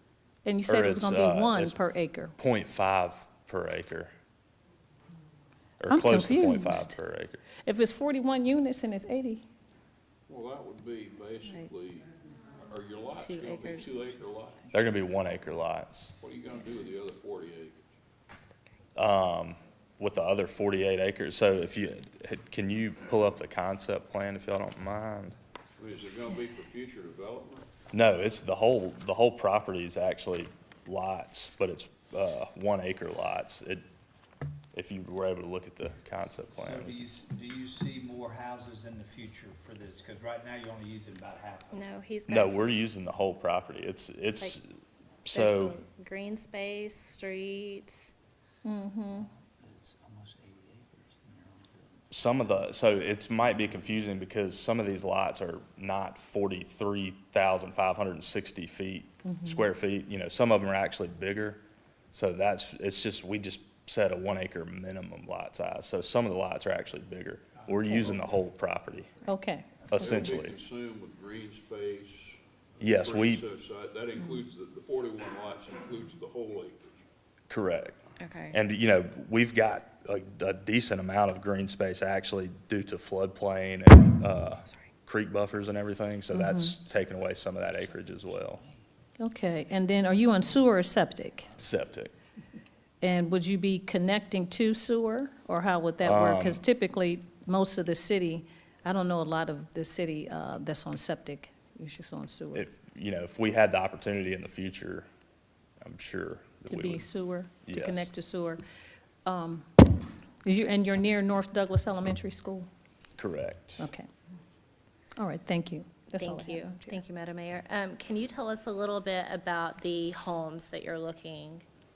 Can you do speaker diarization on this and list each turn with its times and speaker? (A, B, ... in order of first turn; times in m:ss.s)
0:00.4-0:02.4 A
0:00.7-0:01.8 B
0:02.4-0:04.1 B
0:05.8-0:07.4 B
0:05.9-0:07.0 A
0:07.6-0:09.4 A
0:10.3-0:12.1 C
0:12.6-0:14.7 C
0:13.2-0:14.0 D
0:14.7-0:16.1 B
0:16.2-0:17.8 C
0:19.0-0:25.4 B
0:25.8-0:27.6 C
0:27.9-0:33.8 B
0:34.7-0:37.1 B
0:36.5-0:41.8 E
0:41.7-0:42.7 D
0:42.3-0:44.6 B
0:45.3-0:45.8 B
0:45.3-0:48.1 D
0:48.6-0:49.3 A
0:49.5-0:51.9 E
0:52.1-1:01.6 B
0:59.3-0:59.6 A
1:02.1-1:09.2 B
1:07.8-1:08.2 A
1:09.2-1:09.9 A
1:09.9-1:10.6 B
1:09.9-1:17.0 C
1:12.8-1:13.5 B
1:17.5-1:18.0 B
1:18.2-1:18.6 D
1:18.5-1:28.6 B
1:26.3-1:26.8 A
1:29.2-1:31.5 A
1:31.6-1:32.1 B
1:33.0-1:42.7 A
1:36.0-1:36.6 B
1:42.5-1:45.1 B
1:45.8-1:47.1 B
1:46.7-1:48.6 A
1:47.6-1:48.1 B
1:49.2-1:49.9 A
1:50.4-1:52.7 A
1:53.2-1:53.9 B
1:53.8-1:54.1 A
1:55.2-1:57.0 A
1:56.2-2:01.6 D